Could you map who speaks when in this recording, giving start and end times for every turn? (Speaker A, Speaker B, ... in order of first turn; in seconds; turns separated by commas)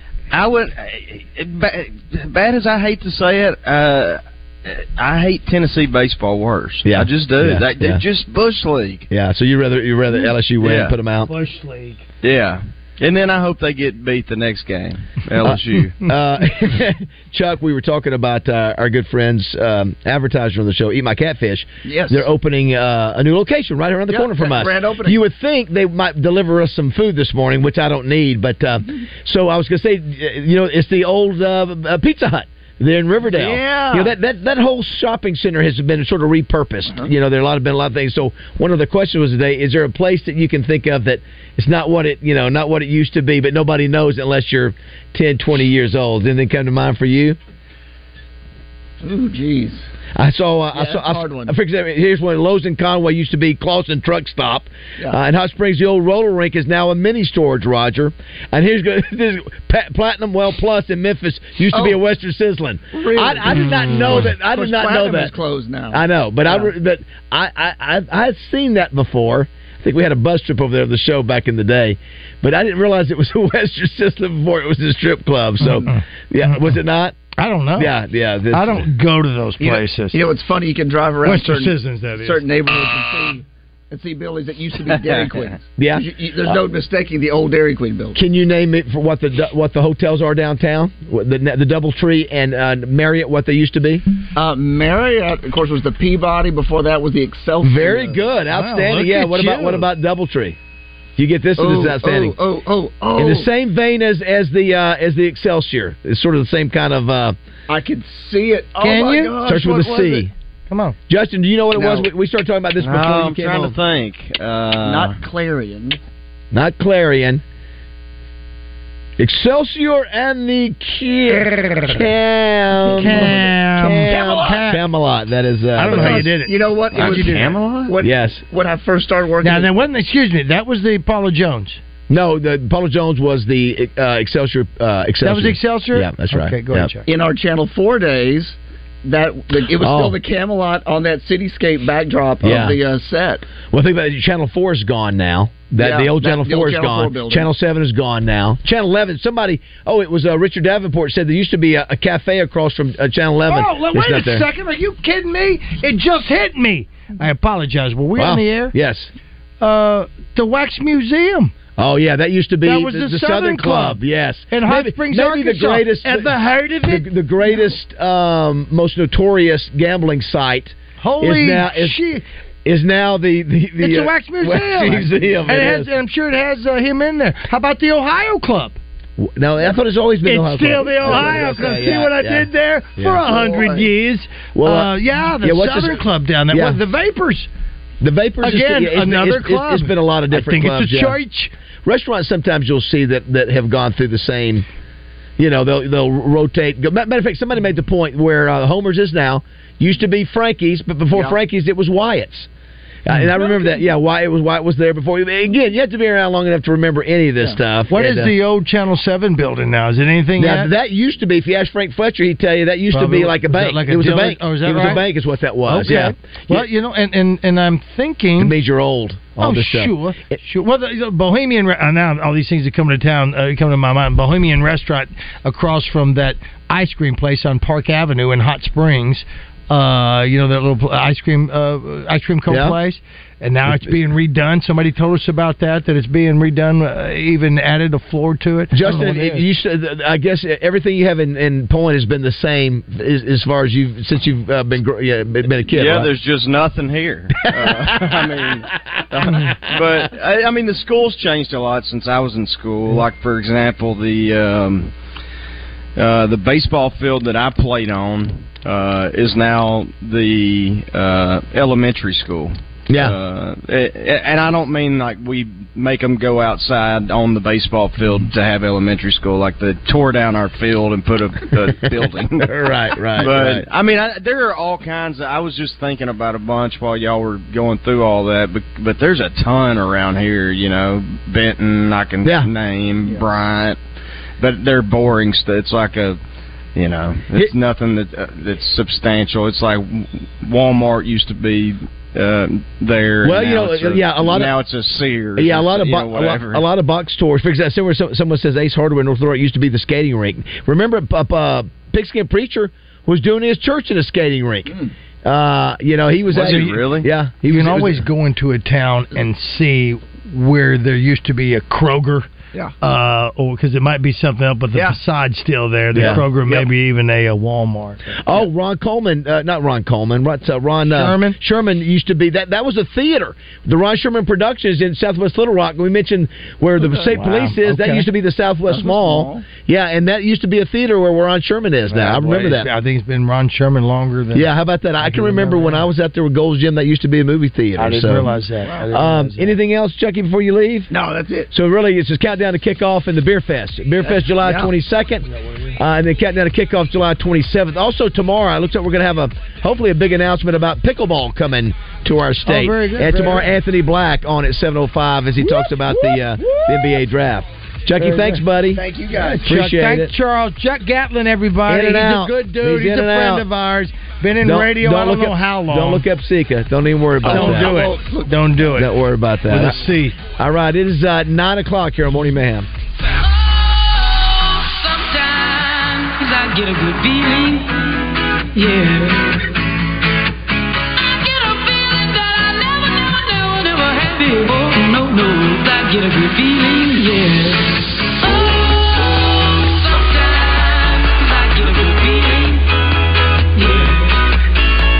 Speaker A: 0.3-9.1, Speaker B: 6.9-8.0, Speaker B: 9.1-11.3, Speaker A: 10.6-10.9, Speaker C: 11.2-12.0, Speaker A: 12.2-16.0, Speaker B: 15.4-47.4, Speaker D: 21.8-22.3, Speaker D: 24.1-25.2, Speaker D: 33.2-34.1, Speaker D: 49.0-49.9, Speaker B: 50.2-65.3, Speaker D: 50.7-51.6, Speaker D: 61.7-62.0, Speaker D: 62.9-66.8, Speaker B: 65.9-77.2, Speaker C: 75.6-76.8, Speaker C: 77.4-77.9, Speaker B: 77.8-78.8, Speaker C: 78.5-80.2, Speaker D: 79.6-88.2, Speaker C: 81.2-82.4, Speaker A: 85.0-85.4, Speaker B: 85.8-86.5, Speaker B: 88.2-94.0, Speaker D: 94.3-98.3, Speaker B: 97.6-100.6, Speaker C: 98.5-99.9, Speaker B: 101.2-102.3, Speaker D: 101.6-103.5, Speaker B: 103.2-107.4, Speaker D: 107.7-110.3, Speaker C: 108.8-109.4, Speaker B: 109.5-110.3, Speaker C: 110.7-111.0, Speaker B: 111.1-113.7, Speaker D: 111.7-112.1, Speaker A: 112.8-115.2, Speaker D: 114.8-116.0, Speaker B: 116.5-117.4, Speaker B: 119.2-126.3, Speaker D: 122.9-123.4, Speaker C: 123.0-124.8, Speaker D: 124.0-124.7, Speaker C: 125.8-127.6, Speaker D: 125.9-129.7, Speaker A: 126.9-127.9, Speaker B: 128.0-128.4, Speaker C: 129.4-131.8, Speaker B: 132.1-136.9, Speaker C: 135.2-137.1, Speaker D: 137.1-143.4, Speaker B: 139.8-140.2, Speaker B: 142.4-142.8, Speaker B: 143.7-154.5, Speaker D: 145.7-147.6, Speaker C: 153.5-158.8, Speaker B: 158.2-159.1, Speaker C: 159.6-161.5, Speaker B: 161.8-172.0, Speaker C: 162.6-164.0, Speaker C: 164.5-167.7, Speaker C: 171.0-172.2, Speaker B: 172.7-175.9, Speaker C: 173.8-178.8, Speaker B: 179.2-183.9, Speaker C: 180.2-187.5, Speaker B: 184.6-186.0, Speaker B: 186.5-186.8, Speaker B: 188.0-191.2, Speaker C: 188.4-191.5, Speaker B: 191.8-194.7, Speaker B: 195.4-202.5, Speaker D: 201.1-201.4, Speaker B: 203.1-208.3, Speaker D: 203.2-203.8, Speaker C: 207.9-210.7, Speaker B: 210.4-216.6, Speaker C: 212.9-215.1, Speaker C: 215.7-218.6, Speaker B: 218.4-219.9, Speaker C: 219.4-239.4, Speaker B: 232.5-232.8, Speaker B: 238.7-246.1, Speaker A: 245.7-254.9, Speaker B: 247.6-247.9, Speaker A: 256.0-272.5, Speaker B: 262.9-263.1, Speaker B: 272.4-273.6, Speaker A: 273.1-283.8, Speaker B: 282.2-282.5, Speaker A: 284.4-286.2, Speaker A: 286.8-296.6, Speaker B: 293.2-294.5, Speaker B: 295.4-304.7, Speaker B: 305.2-308.0, Speaker A: 306.3-307.1, Speaker C: 307.4-312.3, Speaker C: 312.8-318.4, Speaker B: 315.9-316.6, Speaker B: 318.2-332.7, Speaker C: 320.9-321.4, Speaker D: 326.8-327.2, Speaker C: 327.1-328.1, Speaker D: 328.7-329.5, Speaker C: 331.9-334.5, Speaker B: 334.4-338.3, Speaker C: 335.0-335.9, Speaker C: 337.8-339.6, Speaker D: 338.6-338.9, Speaker B: 338.9-340.9, Speaker D: 340.9-341.5, Speaker B: 341.5-358.8, Speaker D: 344.0-344.7, Speaker C: 352.4-353.5, Speaker C: 355.4-357.0, Speaker C: 358.0-358.4, Speaker D: 358.7-359.5, Speaker C: 359.1-366.1, Speaker B: 359.4-360.1, Speaker B: 361.7-363.5, Speaker B: 364.4-367.8, Speaker D: 367.2-368.6, Speaker C: 367.2-368.9, Speaker B: 368.8-369.8, Speaker C: 369.4-370.2, Speaker B: 370.4-372.7, Speaker E: 374.3-379.5, Speaker E: 381.1-392.7, Speaker E: 393.6-394.3